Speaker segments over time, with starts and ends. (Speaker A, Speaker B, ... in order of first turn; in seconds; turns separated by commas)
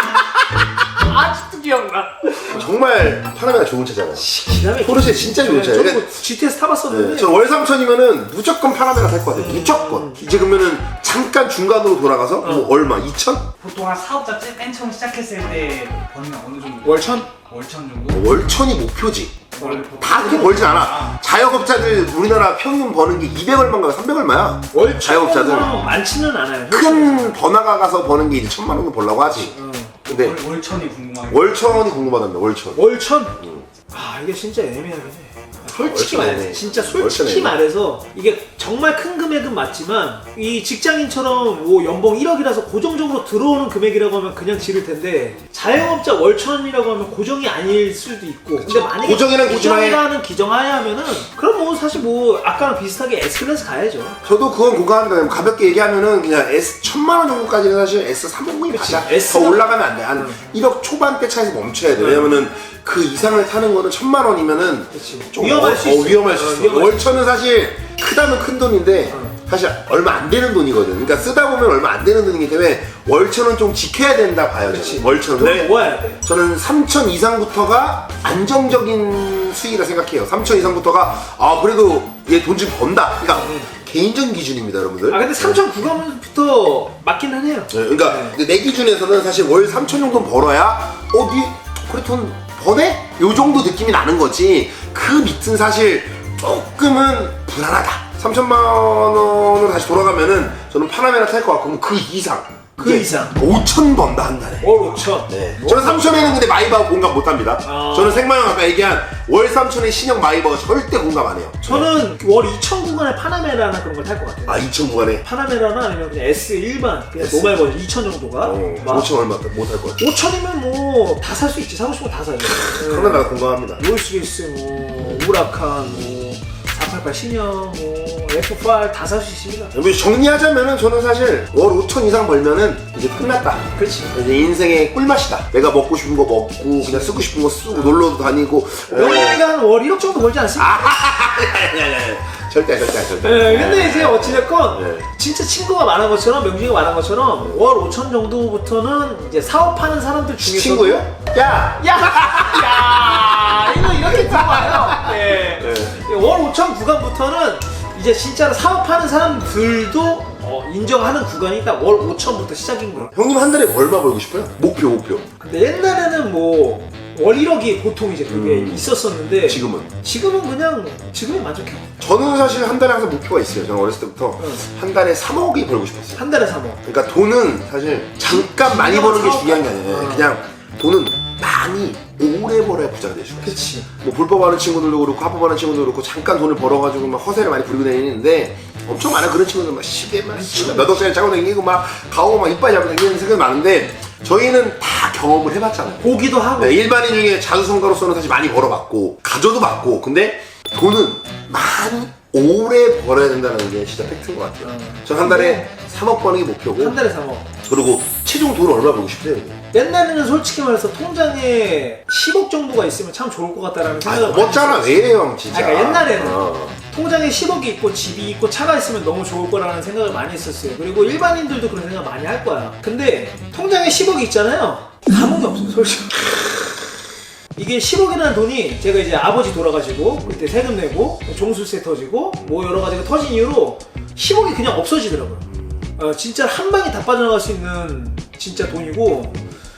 Speaker A: 0.9-2.3, Speaker B: 2.4-4.2, Speaker C: 4.2-7.3, Speaker B: 4.8-6.1, Speaker B: 6.9-13.5, Speaker C: 9.3-10.2, Speaker C: 12.4-12.7, Speaker A: 13.6-18.3, Speaker C: 16.8-17.3, Speaker B: 18.1-25.9, Speaker A: 19.6-21.2, Speaker C: 19.6-20.6, Speaker C: 24.7-27.3, Speaker B: 26.7-30.4, Speaker C: 29.6-29.9, Speaker A: 30.1-31.7, Speaker B: 31.3-33.6, Speaker C: 32.8-33.4, Speaker C: 33.9-54.1, Speaker B: 35.7-37.6, Speaker B: 48.6-50.0, Speaker A: 50.9-52.2, Speaker B: 54.2-85.6, Speaker C: 58.7-59.6, Speaker C: 65.2-67.2, Speaker C: 74.7-76.1, Speaker C: 85.1-88.3, Speaker B: 87.7-111.9, Speaker C: 102.8-103.3, Speaker C: 104.6-106.3, Speaker C: 107.7-108.2, Speaker C: 111.6-114.6, Speaker B: 114.5-115.2, Speaker C: 115.2-119.1, Speaker B: 117.2-117.7, Speaker B: 118.4-120.1, Speaker C: 120.0-123.2, Speaker B: 122.4-123.9, Speaker C: 123.8-129.7, Speaker B: 125.0-125.3, Speaker B: 129.7-139.4, Speaker C: 133.8-134.1, Speaker C: 138.9-140.9, Speaker B: 140.6-145.1, Speaker C: 143.2-151.1, Speaker B: 147.3-147.7, Speaker B: 150.4-156.0, Speaker C: 151.8-163.0, Speaker B: 163.0-165.3, Speaker C: 165.6-171.9, Speaker B: 168.3-169.9, Speaker A: 170.2-170.6, Speaker B: 172.0-176.2, Speaker C: 176.2-176.8, Speaker B: 176.8-207.0, Speaker C: 178.3-180.3, Speaker C: 183.4-183.8, Speaker C: 190.3-191.0, Speaker C: 196.0-196.7, Speaker C: 205.1-205.7, Speaker C: 206.8-207.4, Speaker B: 207.6-209.6, Speaker C: 209.7-216.4, Speaker B: 214.0-216.8, Speaker C: 216.9-226.3, Speaker A: 224.9-225.8, Speaker C: 227.6-235.4, Speaker B: 230.2-230.7, Speaker B: 232.4-232.8, Speaker B: 235.4-236.0, Speaker C: 236.0-239.3